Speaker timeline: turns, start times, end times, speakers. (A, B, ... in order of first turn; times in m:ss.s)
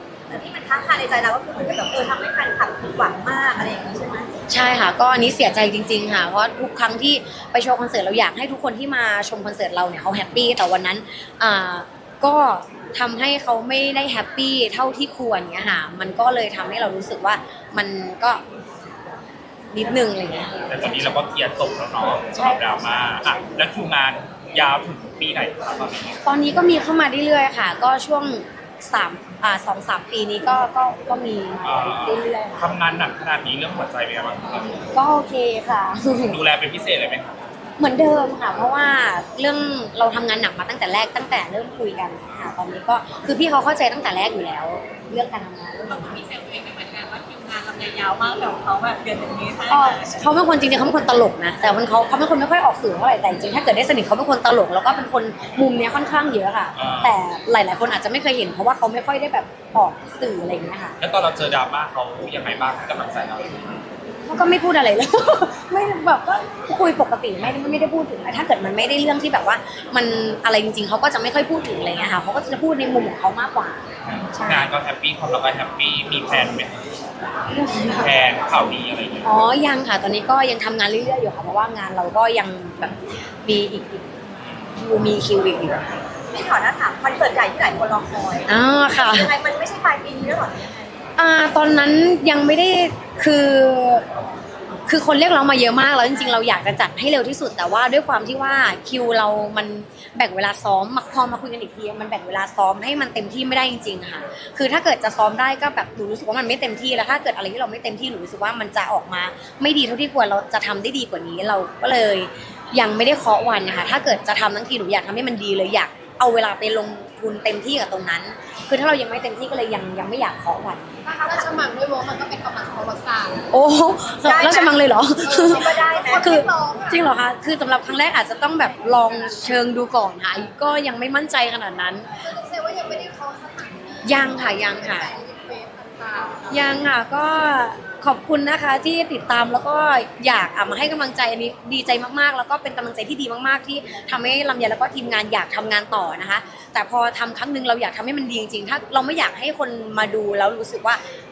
0:00.3-0:04.3 A
0:04.5-0:18.4 B
0:19.7-0:21.1 B
0:20.7-0:26.2 C
0:22.3-0:23.5 B
0:26.2-0:32.6 B
0:31.6-0:34.8 C
0:34.9-0:36.4 B
0:36.3-0:37.3 C
0:37.8-0:46.2 B
0:45.9-0:50.2 D
0:49.7-1:01.0 B
0:56.8-0:57.2 C
1:01.0-1:03.6 C
1:04.3-1:13.8 B
1:14.0-1:16.7 C
1:14.3-1:14.7 B
1:17.5-1:18.1 B
1:17.9-1:19.3 C
1:19.2-1:24.0 B
1:24.8-1:25.8 B
1:26.3-1:31.0 A
1:28.5-1:29.3 B
1:31.2-1:34.0 B
1:34.9-2:00.9 B
2:01.0-2:03.4 D
2:01.2-2:01.5 A
2:03.5-2:12.1 B
2:04.2-2:04.8 A
2:05.2-2:07.0 D
2:05.4-2:06.3 A
2:12.1-2:16.7 D
2:14.0-2:15.1 B
2:16.5-2:31.0 B